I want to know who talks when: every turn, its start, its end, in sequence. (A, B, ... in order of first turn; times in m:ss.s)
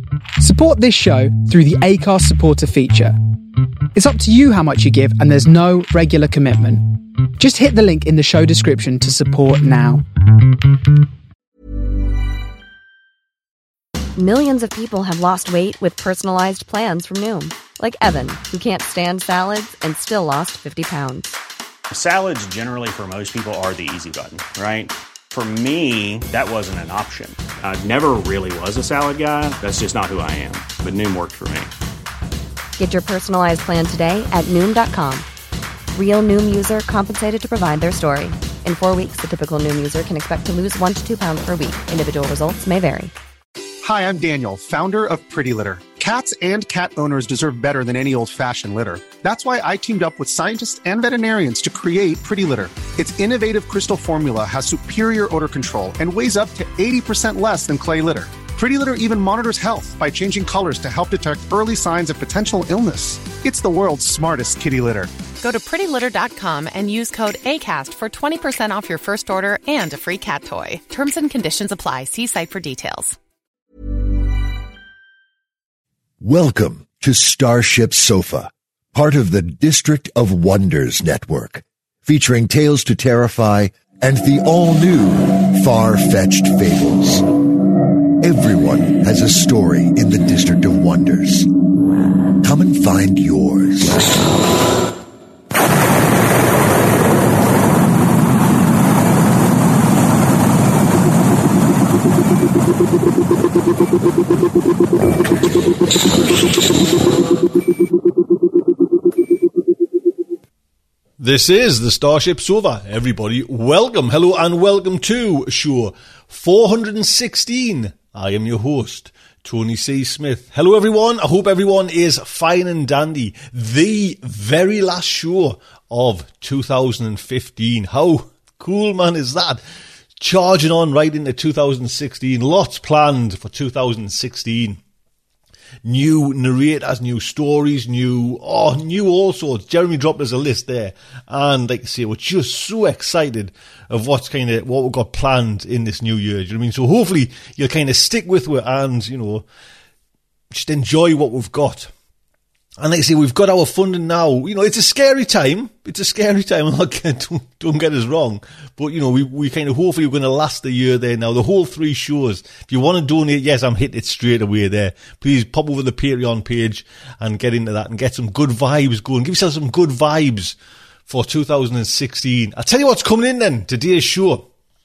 0:00.4-0:03.2 A
0:03.9-0:10.0 A
0:14.2-0:21.3 B
0:21.9-0:31.7 C
0:32.8-0:35.2 B
0:35.9-0:43.1 B
0:43.8-1:05.1 D
1:05.4-1:13.2 E
1:16.2-1:27.2 F
1:28.2-1:31.5 F
1:32.4-1:34.1 F
1:51.2-2:09.6 G
2:10.2-2:14.8 G
2:15.8-2:29.4 G
2:30.5-2:31.9 G
2:32.8-2:50.5 G
2:51.1-2:54.4 G